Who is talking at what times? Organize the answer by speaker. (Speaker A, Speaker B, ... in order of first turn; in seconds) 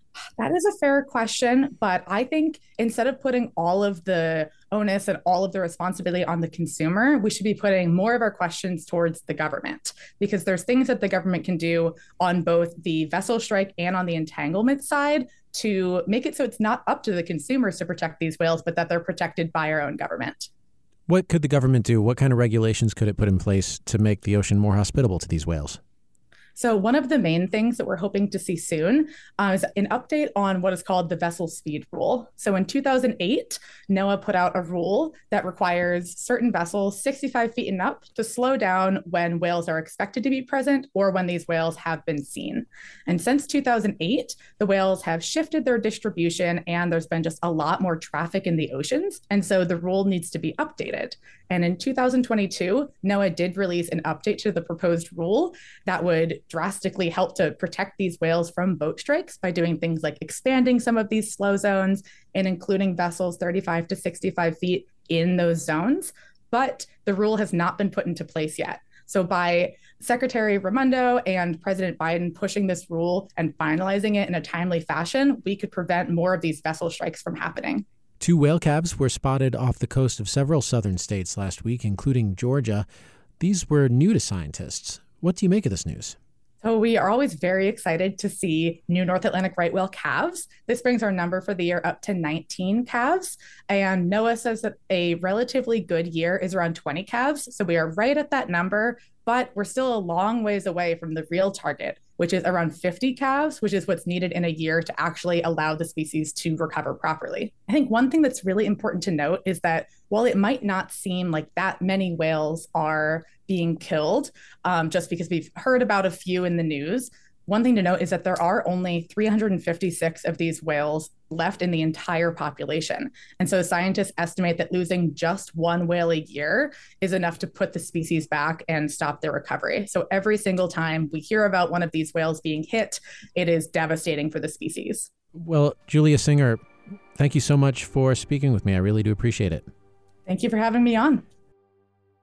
Speaker A: 0.4-20.5, 26.6-77.8, 86.6-135.1, 140.3-141.2
Speaker B: 21.1-25.8, 78.2-82.8, 83.4-86.2, 135.3-136.6, 137.1-139.7